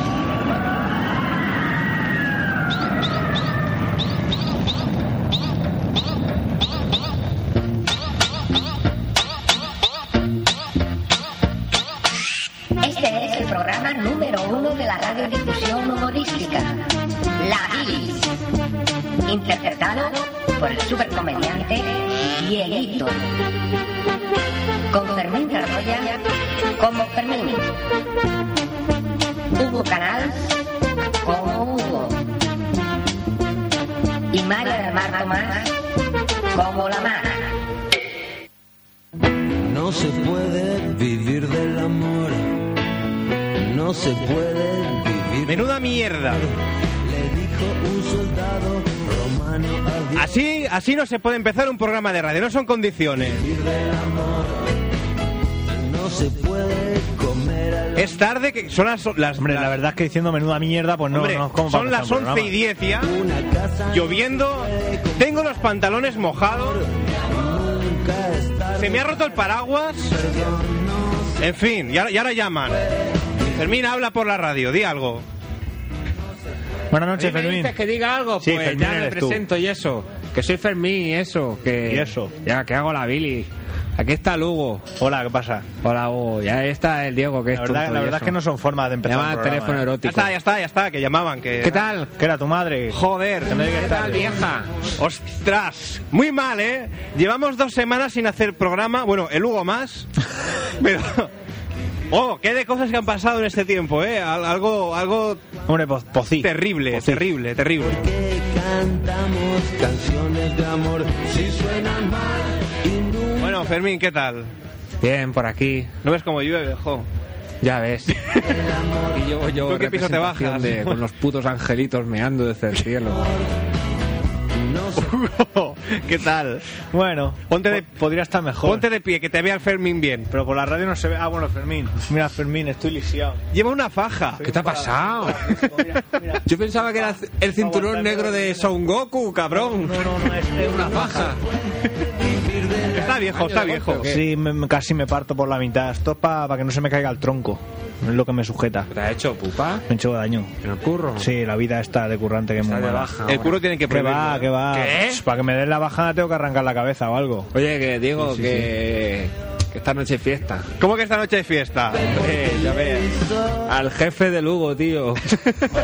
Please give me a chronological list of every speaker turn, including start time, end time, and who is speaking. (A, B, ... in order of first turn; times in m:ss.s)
0:12.8-0:16.8 A
0:17.4-0:18.3 A
0:19.2-0:23.2 A
0:24.9-0:26.2 A
0:26.8-0:27.7 A
0:29.5-0:30.6 A
0:31.2-0:32.2 A
0:34.3-0:35.8 A
0:36.5-0:37.5 A
0:39.6-0:42.5 B
0:43.6-0:45.7 B
0:45.4-0:46.4 C
0:47.0-0:50.3 B
0:50.1-0:53.4 C
0:53.4-0:54.7 B
0:55.7-0:58.2 B
0:58.0-0:59.7 C
0:59.4-1:02.5 D
1:01.1-1:03.1 C
1:03.0-1:05.2 B
1:03.9-1:06.8 C
1:07.2-1:09.3 B
1:08.7-1:10.2 C
1:10.1-1:11.4 B
1:11.4-1:12.8 C
1:13.5-1:15.2 C
1:16.9-1:17.7 D
1:17.2-1:24.9 E
1:18.4-1:19.4 D
1:21.9-1:22.3 D
1:25.0-1:25.7 D
1:25.8-1:28.4 E
1:27.5-1:29.8 D
1:29.0-1:30.3 E
1:30.0-1:31.8 C
1:31.6-1:32.1 E
1:32.1-1:34.4 D
1:32.9-1:33.6 C
1:33.5-1:34.9 E
1:35.0-1:40.1 C
1:40.8-1:41.3 C
1:42.1-1:45.4 C
1:45.7-1:47.2 D
1:46.4-1:48.0 C
1:47.9-1:53.6 B
1:53.4-1:54.5 C
1:55.0-1:55.9 E
1:56.0-1:57.1 C
1:57.6-1:58.2 E
1:58.4-1:59.2 B
1:59.1-2:03.3 E
1:59.6-2:01.0 C
2:04.5-2:05.1 B
2:04.9-2:06.7 C
2:06.9-2:08.8 D
2:07.5-2:07.8 C
2:08.6-2:10.3 C
2:10.3-2:13.4 D
2:13.5-2:14.5 C
2:14.4-2:18.7 D
2:14.4-2:15.5 E
2:15.5-2:16.2 C
2:16.4-2:21.4 E
2:19.5-2:21.4 D
2:22.2-2:23.2 B
2:22.9-2:24.1 C
2:23.3-2:24.2 E
2:23.9-2:28.9 D
2:28.9-2:29.8 E
2:29.9-2:30.5 D
2:30.6-2:31.3 E
2:31.2-2:33.1 D
2:32.6-2:33.7 E
2:33.2-2:34.5 C
2:33.9-2:37.5 D
2:34.7-2:35.2 E
2:37.5-2:40.7 E
2:38.2-2:38.6 D
2:40.8-2:42.1 C
2:42.1-2:43.1 E
2:42.2-2:43.6 B
2:43.6-2:45.4 E